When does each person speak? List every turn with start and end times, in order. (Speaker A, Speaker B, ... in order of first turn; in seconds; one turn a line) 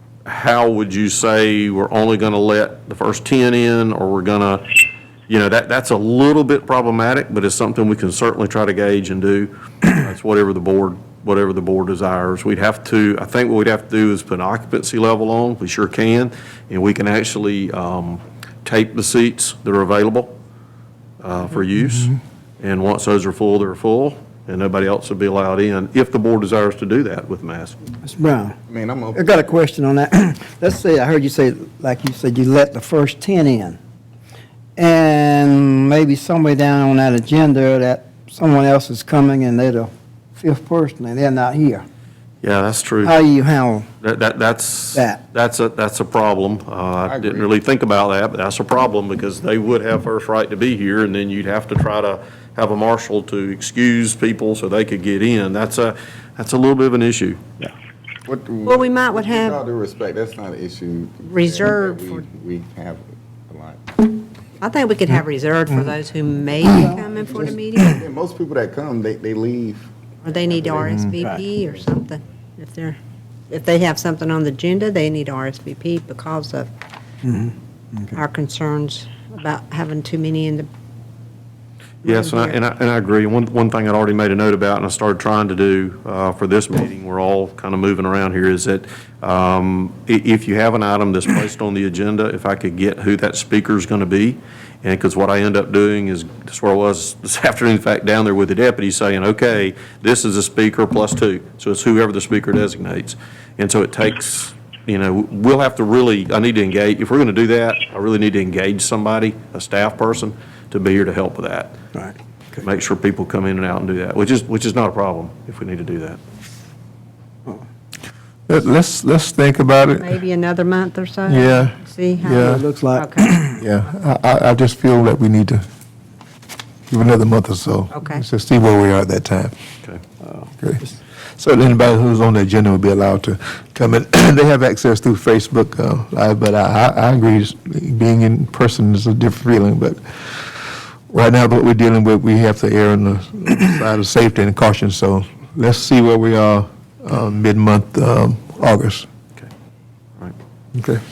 Speaker A: 0.3-20.3
Speaker A: 21.2-27.8
Speaker B: 28.0-28.6
Speaker C: 28.7-29.5
Speaker B: 29.1-33.8
Speaker B: 34.8-41.8
Speaker A: 42.4-43.1
Speaker B: 43.0-43.9
Speaker A: 44.0-57.4
Speaker B: 44.9-45.2
Speaker C: 47.1-47.5
Speaker C: 58.3-64.1
Speaker D: 58.6-59.6
Speaker D: 61.3-62.2
Speaker D: 64.6-68.0
Speaker C: 67.8-69.9
Speaker D: 70.2-73.0
Speaker C: 70.5-71.0
Speaker D: 73.5-76.7
Speaker B: 77.2-78.1
Speaker D: 78.1-80.7
Speaker A: 82.0-111.8
Speaker D: 82.0-82.5
Speaker A: 112.6-116.2
Speaker E: 118.5-120.1
Speaker D: 120.0-123.4
Speaker E: 121.3-122.6
Speaker B: 122.3-123.6
Speaker E: 123.6-125.6
Speaker E: 126.9-129.5
Speaker D: 127.9-128.2
Speaker E: 130.6-130.9
Speaker E: 131.4-149.1
Speaker E: 150.8-151.0